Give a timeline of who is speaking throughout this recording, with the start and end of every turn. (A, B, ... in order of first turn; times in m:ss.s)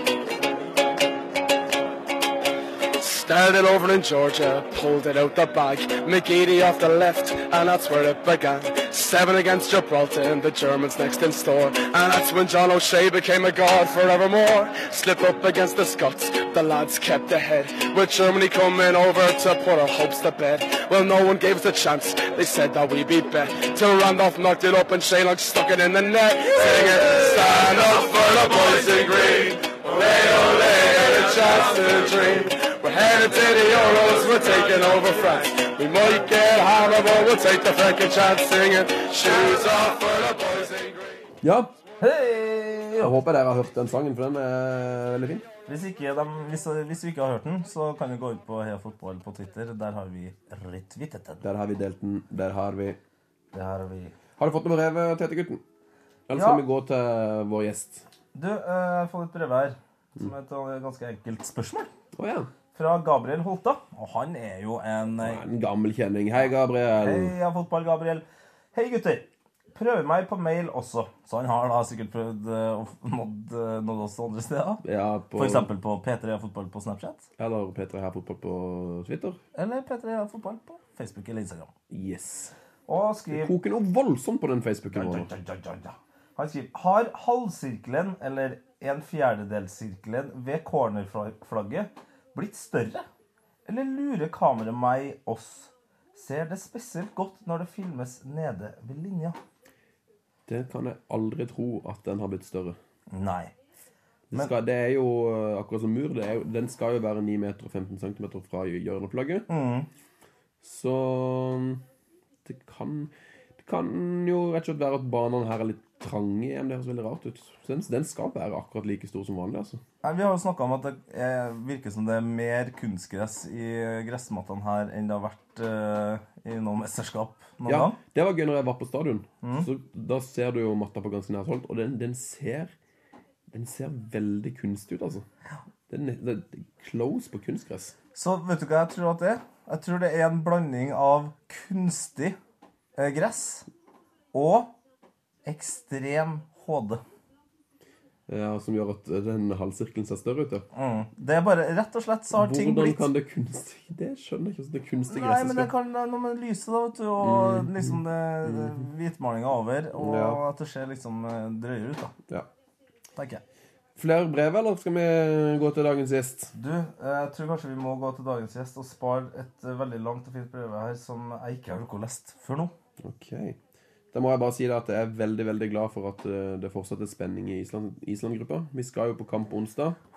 0:03.0-0:41.1 A
0:41.4-0:41.7 B
0:42.0-0:43.1 C
0:43.0-0:45.5 B
0:45.7-0:51.4 C
0:51.4-0:53.0 B
0:53.5-0:54.2 C
0:54.4-0:55.6 B
0:56.3-0:58.0 B
0:58.4-1:01.9 C
1:02.2-1:02.5 B
1:02.7-1:05.3 C
1:05.2-1:07.3 B
1:07.0-1:14.8 C
1:14.8-1:15.7 B
1:15.4-1:17.3 C
1:17.4-1:19.4 B
1:19.6-1:21.7 C
1:21.9-1:22.5 B
1:22.9-1:23.5 C
1:23.3-1:25.3 B
1:24.9-1:33.0 C
1:33.7-1:39.4 C
1:40.5-1:42.8 B
1:43.1-1:43.5 C
1:44.3-1:49.5 B
1:49.5-1:49.9 C
1:50.6-1:51.8 B
1:52.4-1:59.8 B
2:00.0-2:08.0 C
2:07.7-2:12.7 B
2:09.4-2:09.7 C
2:13.5-2:15.3 B
2:15.9-2:18.0 B
2:18.2-2:22.4 C
2:23.0-2:23.7 C
2:24.3-2:24.8 C
2:25.5-2:27.0 C
2:28.3-2:30.6 B
2:30.8-2:33.0 C
2:32.3-2:35.7 B
2:35.1-2:42.1 C
2:37.2-2:38.0 B
2:40.0-2:40.4 B
2:43.2-2:43.4 C
2:44.0-2:46.5 B
2:46.6-2:52.7 C
2:53.0-2:53.6 B
2:54.1-3:00.0 B